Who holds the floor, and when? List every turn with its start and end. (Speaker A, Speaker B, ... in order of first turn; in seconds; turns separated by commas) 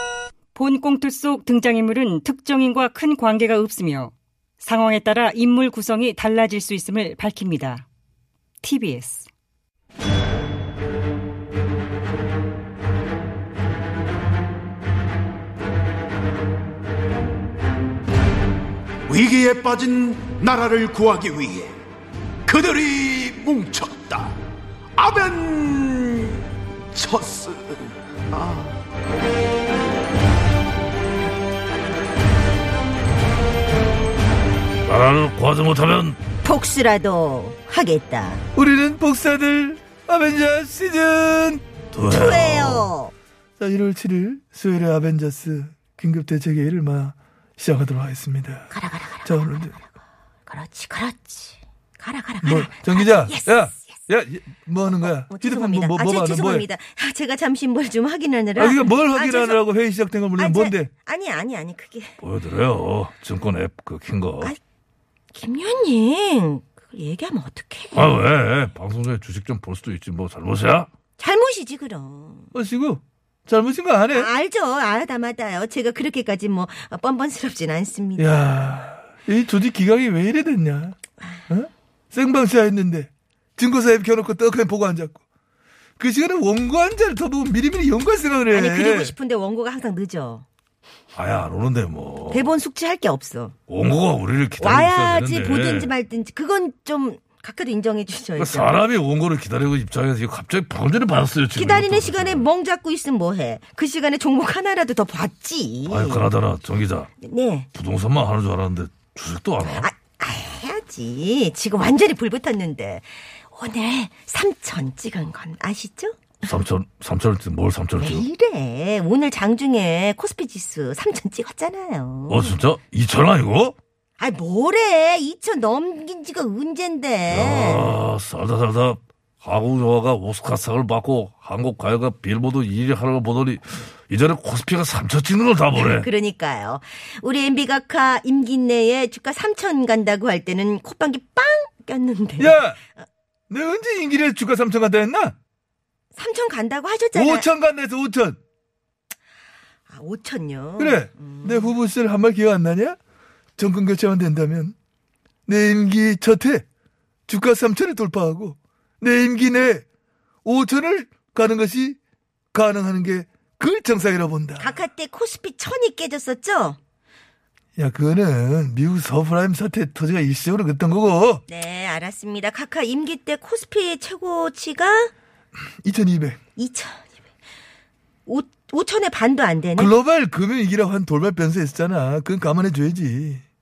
Speaker A: 0.5-7.8, Speaker A: 8.6-9.3, Speaker B: 19.1-21.8, Speaker B: 22.5-24.3, Speaker B: 24.9-28.7, Speaker C: 34.9-36.2, Speaker D: 36.4-38.4, Speaker E: 38.5-41.6, Speaker C: 41.9-42.9, Speaker D: 42.1-43.1, Speaker E: 43.6-48.7, Speaker D: 48.7-49.8, Speaker E: 49.2-49.8, Speaker D: 50.5-53.9, Speaker E: 52.4-56.7, Speaker D: 55.0-59.6, Speaker E: 58.5-60.9, Speaker D: 60.4-62.2, Speaker C: 62.2-64.5, Speaker D: 65.3-68.2, Speaker C: 67.9-70.9, Speaker D: 71.2-72.5, Speaker E: 72.5-74.3, Speaker D: 74.1-78.7, Speaker E: 78.2-81.0, Speaker E: 81.5-85.2, Speaker E: 86.0-89.1, Speaker D: 88.5-90.4, Speaker C: 91.1-92.5, Speaker D: 92.3-93.5, Speaker C: 93.7-95.9, Speaker D: 94.6-98.8, Speaker C: 98.4-102.5, Speaker D: 101.5-106.3, Speaker C: 105.9-107.1, Speaker D: 107.2-107.7, Speaker C: 107.7-109.9, Speaker D: 109.6-116.5, Speaker C: 116.4-118.3, Speaker D: 118.0-122.6, Speaker C: 122.3-123.8, Speaker D: 124.2-128.0, Speaker C: 127.3-136.1, Speaker D: 135.7-143.0, Speaker E: 142.4-142.8, Speaker E: 143.5-145.3, Speaker D: 146.1-147.5, Speaker E: 147.1-148.4, Speaker D: 149.9-151.7, Speaker E: 150.8-153.0, Speaker E: 153.6-154.7, Speaker E: 155.5-156.6, Speaker E: 157.3-159.8, Speaker E: 160.4-162.0, Speaker E: 162.5-164.7, Speaker D: 164.6-166.8, Speaker E: 167.8-171.4, Speaker D: 171.5-175.1, Speaker E: 175.8-176.4, Speaker D: 176.6-177.1, Speaker D: 178.2-179.9, Speaker E: 179.8-183.4